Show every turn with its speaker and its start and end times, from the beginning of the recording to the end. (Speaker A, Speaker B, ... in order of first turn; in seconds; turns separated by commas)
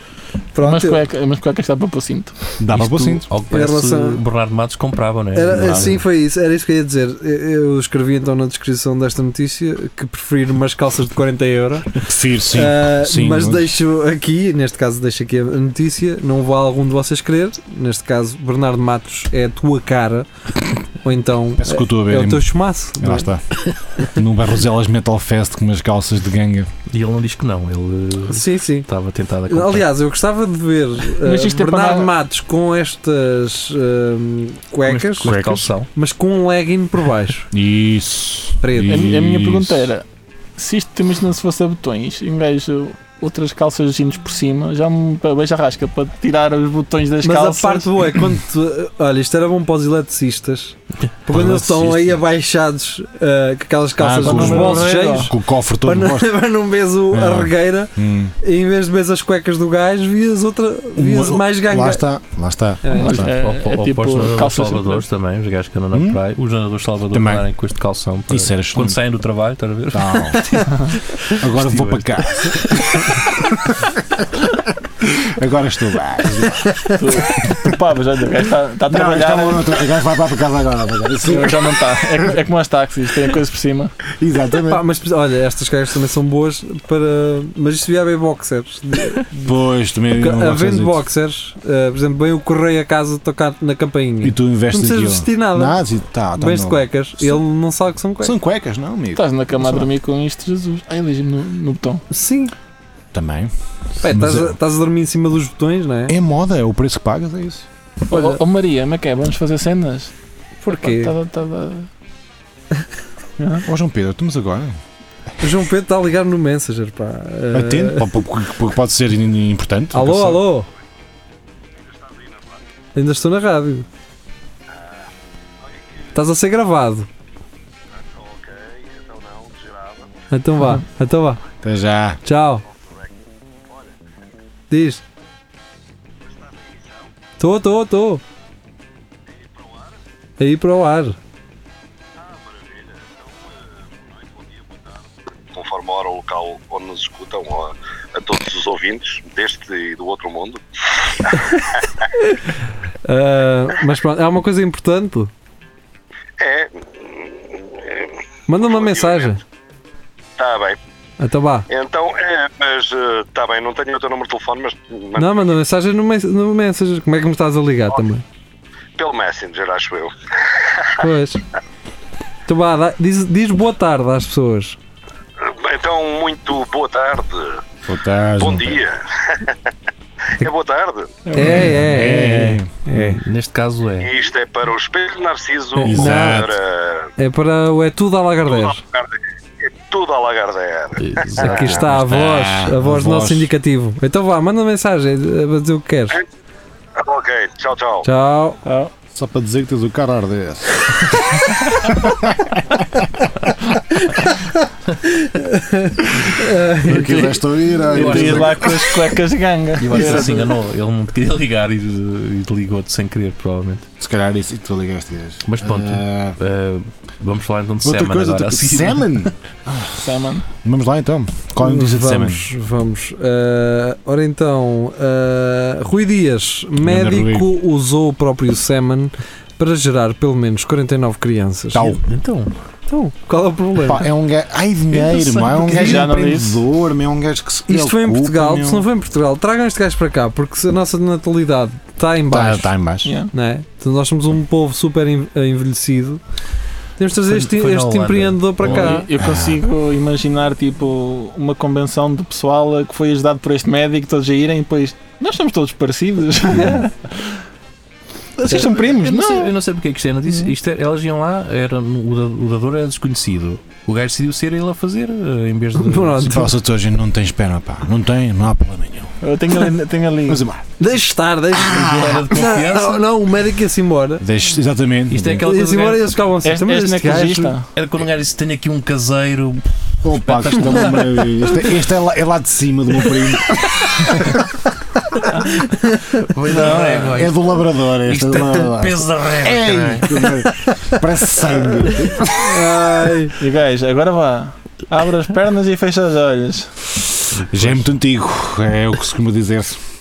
Speaker A: 0.5-1.0, Speaker B: 0.6-2.4, Speaker C: 2.6-3.3, Speaker D: 2.7-6.0, Speaker A: 3.5-4.2, Speaker A: 5.3-20.3, Speaker C: 5.5-6.0, Speaker C: 12.0-13.8, Speaker A: 20.9-23.3, Speaker C: 21.6-23.6, Speaker C: 24.1-26.7, Speaker D: 26.9-29.9, Speaker A: 28.3-28.9, Speaker A: 29.5-35.3, Speaker B: 31.2-32.1, Speaker D: 34.9-35.9, Speaker C: 35.2-35.7, Speaker A: 35.9-37.5, Speaker C: 37.5-39.9, Speaker A: 38.6-39.0, Speaker B: 38.8-40.0, Speaker B: 40.6-47.9, Speaker A: 47.2-62.0, Speaker C: 51.3-52.2, Speaker C: 54.0-56.3, Speaker B: 54.2-55.3, Speaker C: 57.1-58.3, Speaker C: 61.0-63.3, Speaker A: 62.8-63.2, Speaker B: 62.9-65.0, Speaker D: 63.1-73.2, Speaker C: 65.9-66.2, Speaker C: 67.1-67.5, Speaker C: 68.3-69.0, Speaker C: 69.9-70.4, Speaker C: 71.4-73.8, Speaker C: 75.0-76.9, Speaker B: 76.9-79.7, Speaker C: 78.9-81.8, Speaker B: 81.2-83.9, Speaker C: 84.1-84.8, Speaker A: 84.7-89.5, Speaker C: 89.4-91.0, Speaker A: 90.2-95.8, Speaker C: 94.2-97.4, Speaker A: 96.4-98.3, Speaker C: 98.2-99.8, Speaker B: 99.2-102.0, Speaker A: 102.1-102.5, Speaker C: 103.1-103.5, Speaker A: 104.0-106.2, Speaker C: 104.1-104.6, Speaker C: 106.1-107.7, Speaker B: 108.0-110.1, Speaker A: 108.1-108.4, Speaker A: 110.6-111.1, Speaker B: 110.7-111.9, Speaker B: 113.4-113.7, Speaker C: 113.7-114.8, Speaker A: 115.4-118.2, Speaker C: 117.5-120.5, Speaker A: 119.9-120.7, Speaker E: 121.8-122.6, Speaker A: 123.0-123.9, Speaker E: 124.7-125.1, Speaker E: 125.6-126.2, Speaker A: 126.2-127.1, Speaker E: 127.9-130.1, Speaker A: 130.3-131.4, Speaker C: 131.6-132.2, Speaker A: 132.2-132.6, Speaker E: 132.7-134.0, Speaker A: 134.7-135.0, Speaker E: 136.2-137.1, Speaker A: 137.4-138.2, Speaker E: 139.3-140.0, Speaker A: 140.4-141.2, Speaker E: 142.2-151.9, Speaker A: 152.2-155.3, Speaker E: 156.4-159.4, Speaker A: 158.5-159.4, Speaker E: 160.4-160.8, Speaker A: 161.2-161.7, Speaker E: 161.7-165.5, Speaker A: 165.2-168.2, Speaker E: 169.0-171.0, Speaker A: 171.0-171.4, Speaker A: 172.5-174.8, Speaker E: 175.4-177.6, Speaker C: 177.8-178.8, Speaker E: 178.4-179.6, Speaker E: 180.3-181.3, Speaker B: 181.3-181.7, Speaker A: 181.3-183.2, Speaker C: 181.4-183.0, Speaker D: 183.0-184.1, Speaker E: 184.0-187.1, Speaker C: 185.8-186.6, Speaker A: 185.9-186.4, Speaker A: 187.2-188.8, Speaker E: 188.4-189.1, Speaker E: 189.8-191.7, Speaker D: 191.0-192.2, Speaker A: 191.4-196.2, Speaker C: 191.6-193.5, Speaker E: 197.0-198.1, Speaker A: 198.0-198.6, Speaker B: 198.7-198.9, Speaker C: 199.1-203.3, Speaker A: 204.1-207.3, Speaker C: 206.8-208.7, Speaker D: 207.9-208.9, Speaker B: 207.9-210.5, Speaker D: 209.8-213.9, Speaker C: 214.0-216.4, Speaker D: 215.5-219.1, Speaker C: 217.8-220.0, Speaker B: 220.0-220.5, Speaker C: 220.5-222.5, Speaker A: 221.6-232.0, Speaker C: 226.8-227.5, Speaker C: 231.7-232.0, Speaker D: 232.0-232.5, Speaker A: 232.9-234.1, Speaker C: 233.8-238.8, Speaker D: 234.9-236.0, Speaker B: 235.7-236.6, Speaker A: 237.7-242.7, Speaker C: 242.3-243.1, Speaker B: 243.0-243.3, Speaker A: 243.3-246.2, Speaker A: 247.0-249.1, Speaker D: 247.3-249.0, Speaker B: 248.6-256.9, Speaker C: 249.2-249.6, Speaker B: 258.4-259.5, Speaker D: 258.6-266.3, Speaker A: 265.8-266.5, Speaker C: 266.2-269.2, Speaker B: 269.2-270.4, Speaker C: 270.3-270.7, Speaker A: 270.8-274.2, Speaker C: 271.5-272.3, Speaker D: 271.7-273.0, Speaker C: 274.2-275.5, Speaker D: 275.1-276.1, Speaker A: 275.4-277.6, Speaker B: 276.4-277.7, Speaker D: 277.8-281.3, Speaker C: 280.0-284.5, Speaker A: 285.8-286.2, Speaker D: 286.2-290.4, Speaker C: 286.5-293.1, Speaker A: 292.4-293.4, Speaker B: 293.4-297.0, Speaker C: 297.5-299.8